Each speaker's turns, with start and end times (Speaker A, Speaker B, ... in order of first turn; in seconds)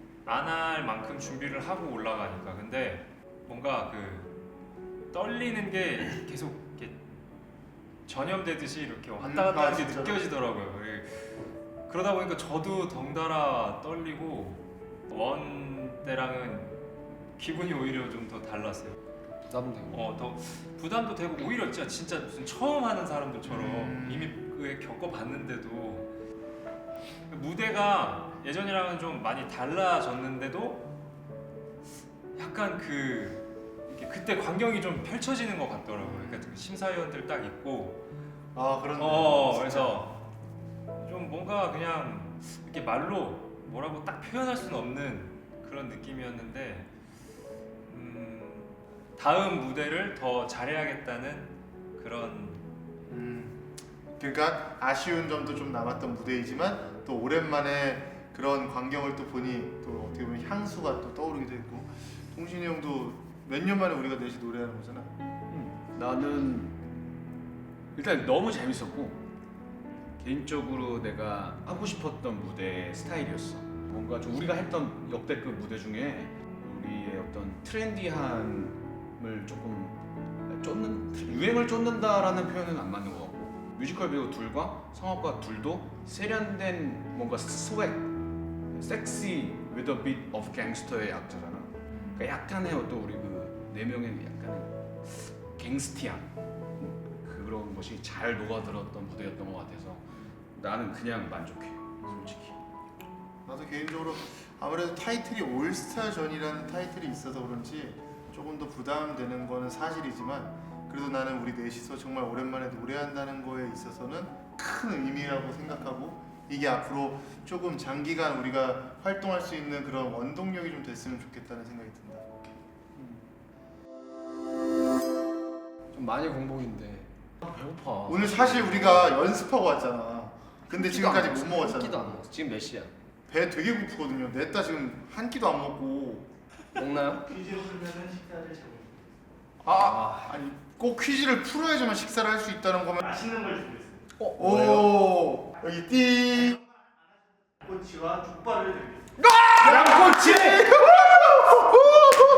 Speaker A: 0.3-4.3, 5.1-7.0, 8.1-11.3, 11.9-16.7, 17.4-19.0, 19.9-26.1, 27.3-30.8, 32.4-38.0, 39.0-40.1, 41.0-46.9, 47.9-52.6, 149.7-150.6
Speaker B: 9.2-10.2, 23.5-24.4, 36.0-36.4, 38.5-40.0, 53.1-53.6, 54.2-65.1, 103.5-122.4, 128.1-132.2, 133.3-136.3, 139.6-143.1, 144.3-146.6, 150.8-151.6
Speaker C: 19.5-20.0, 125.9-129.1, 130.7-132.9, 136.8-137.3, 139.7-140.3, 149.2-150.6
Speaker D: 65.5-66.8, 68.0-69.2, 70.2-88.1, 88.7-102.6
Speaker E: 137.3-139.0, 143.0-144.1, 146.5-146.9, 147.6-149.1